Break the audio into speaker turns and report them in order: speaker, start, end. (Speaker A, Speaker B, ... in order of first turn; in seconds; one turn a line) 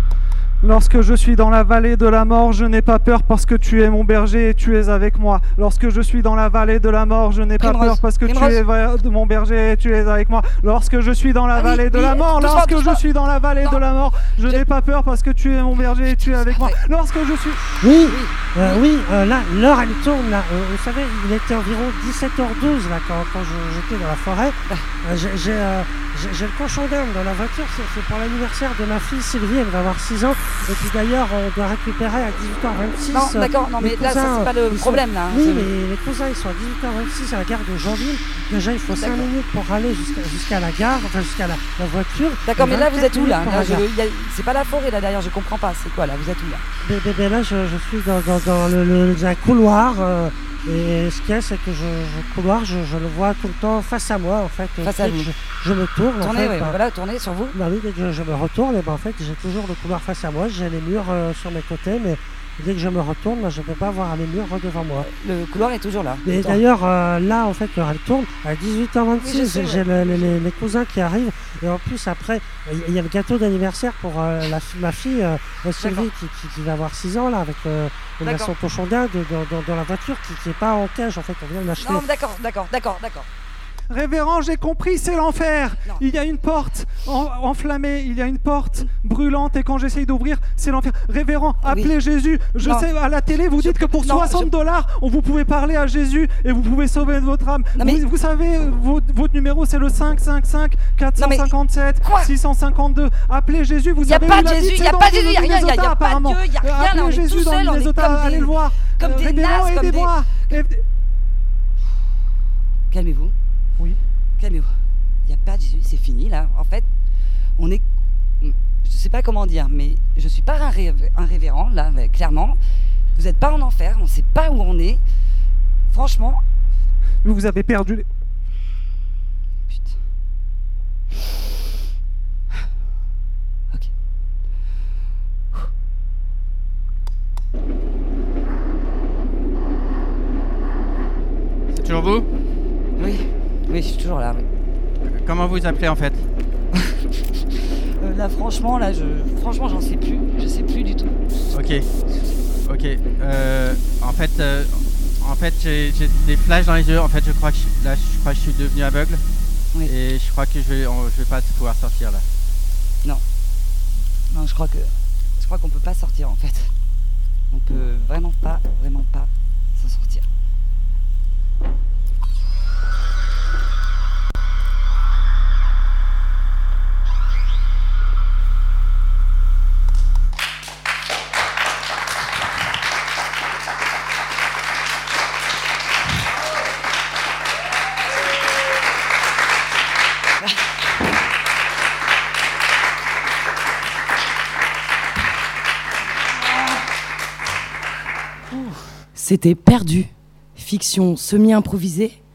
Speaker A: 0.6-17.8
Speaker B: 7.6-8.6
Speaker B: 11.5-13.1
Speaker B: 16.3-16.8
Speaker C: 17.8-43.9
Speaker B: 18.1-18.8
Speaker B: 33.1-35.7
Speaker B: 38.9-39.3
Speaker B: 42.5-46.6
Speaker C: 46.8-56.8
Speaker B: 54.8-55.3
Speaker B: 56.2-57.6
Speaker C: 57.5-65.1
Speaker B: 65.0-66.6
Speaker C: 66.2-82.0
Speaker B: 69.2-70.4
Speaker B: 75.8-76.1
Speaker B: 78.2-78.5
Speaker B: 81.8-83.3
Speaker A: 83.9-110.8
Speaker B: 91.6-92.0
Speaker B: 92.6-92.9
Speaker B: 93.6-94.5
Speaker B: 97.8-98.0
Speaker B: 101.2-101.5
Speaker B: 102.0-102.3
Speaker B: 104.0-110.6
Speaker B: 112.9-113.3
Speaker B: 114.4-114.7
Speaker B: 115.2-116.9
Speaker B: 117.6-117.8
Speaker B: 118.4-122.6
Speaker B: 123.1-125.0
Speaker B: 125.9-126.4
Speaker A: 127.2-128.1
Speaker D: 141.7-142.3
Speaker B: 143.0-144.4
Speaker D: 145.1-146.3
Speaker B: 146.7-147.1
Speaker B: 148.0-151.1
Speaker D: 151.5-151.9
Speaker D: 152.7-159.2
Speaker D: 159.8-162.2
Speaker B: 164.3-166.7
Speaker B: 167.5-170.3
Speaker E: 198.5-202.2